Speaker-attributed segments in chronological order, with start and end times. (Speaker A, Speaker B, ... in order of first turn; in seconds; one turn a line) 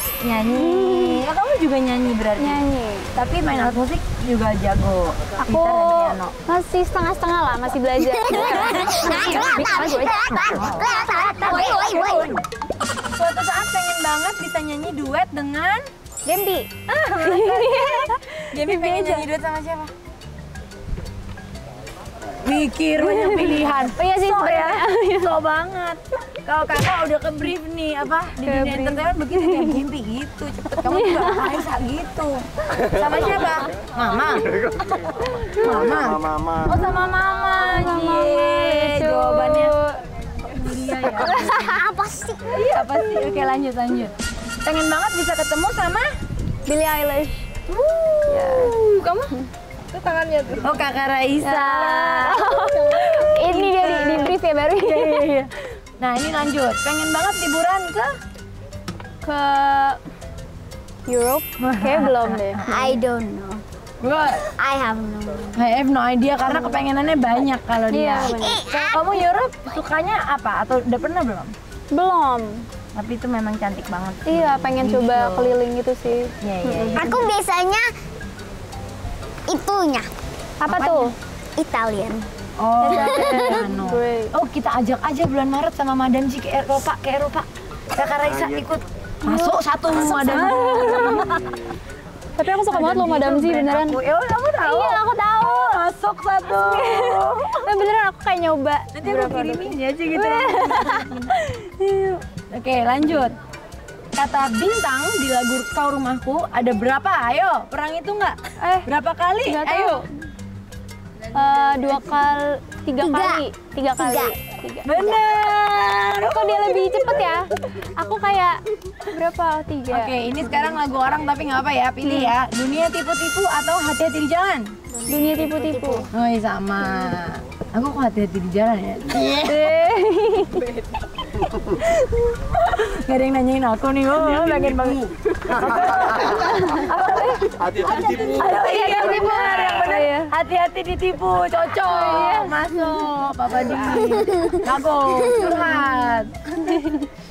Speaker A: 0.2-2.6
Speaker B: 0.4-1.2
Speaker B: 2.4-3.7
Speaker A: 3.1-6.3
Speaker B: 5.4-10.3
Speaker C: 8.0-12.4
Speaker A: 8.4-9.4
Speaker A: 10.4-12.4
Speaker A: 13.1-15.9
Speaker B: 16.2-19.3
Speaker A: 16.9-19.9
Speaker A: 22.4-39.7
Speaker B: 22.9-25.3
Speaker B: 28.4-29.8
Speaker B: 30.8-31.7
Speaker B: 37.5-40.0
Speaker A: 40.4-41.4
Speaker B: 41.0-41.7
Speaker C: 41.3-42.6
Speaker A: 42.5-46.1
Speaker B: 42.7-43.2
Speaker B: 46.7-47.5
Speaker A: 47.7-49.3
Speaker B: 48.3-48.7
Speaker A: 49.9-58.1
Speaker B: 51.4-55.3
Speaker B: 59.2-60.0
Speaker B: 61.1-62.6
Speaker A: 61.6-63.0
Speaker C: 62.6-63.6
Speaker A: 64.0-64.5
Speaker C: 64.6-65.6
Speaker A: 65.5-71.5
Speaker B: 66.5-66.8
Speaker B: 67.9-68.7
Speaker C: 68.3-69.1
Speaker B: 71.9-72.6
Speaker A: 73.0-75.6
Speaker B: 74.3-77.1
Speaker A: 76.4-77.3
Speaker C: 77.0-77.9
Speaker C: 79.5-80.1
Speaker B: 80.6-81.1
Speaker A: 80.7-81.1
Speaker C: 81.6-82.3
Speaker A: 82.6-91.4
Speaker B: 82.8-84.3
Speaker C: 82.9-83.7
Speaker B: 89.2-91.3
Speaker B: 92.4-94.0
Speaker A: 92.7-97.8
Speaker B: 94.6-95.7
Speaker B: 96.5-101.3
Speaker A: 99.0-103.3
Speaker A: 104.2-110.0
Speaker B: 108.6-108.9
Speaker B: 109.4-110.1
Speaker B: 111.3-115.0
Speaker C: 113.0-114.3
Speaker A: 114.8-117.4
Speaker B: 116.2-120.7
Speaker A: 119.9-124.7
Speaker B: 122.0-122.3
Speaker B: 125.1-126.1
Speaker C: 125.6-126.0
Speaker A: 126.1-129.6
Speaker B: 129.4-130.7
Speaker A: 131.8-146.8
Speaker B: 136.2-140.3
Speaker B: 141.8-142.8
Speaker B: 143.5-144.1
Speaker B: 146.6-147.1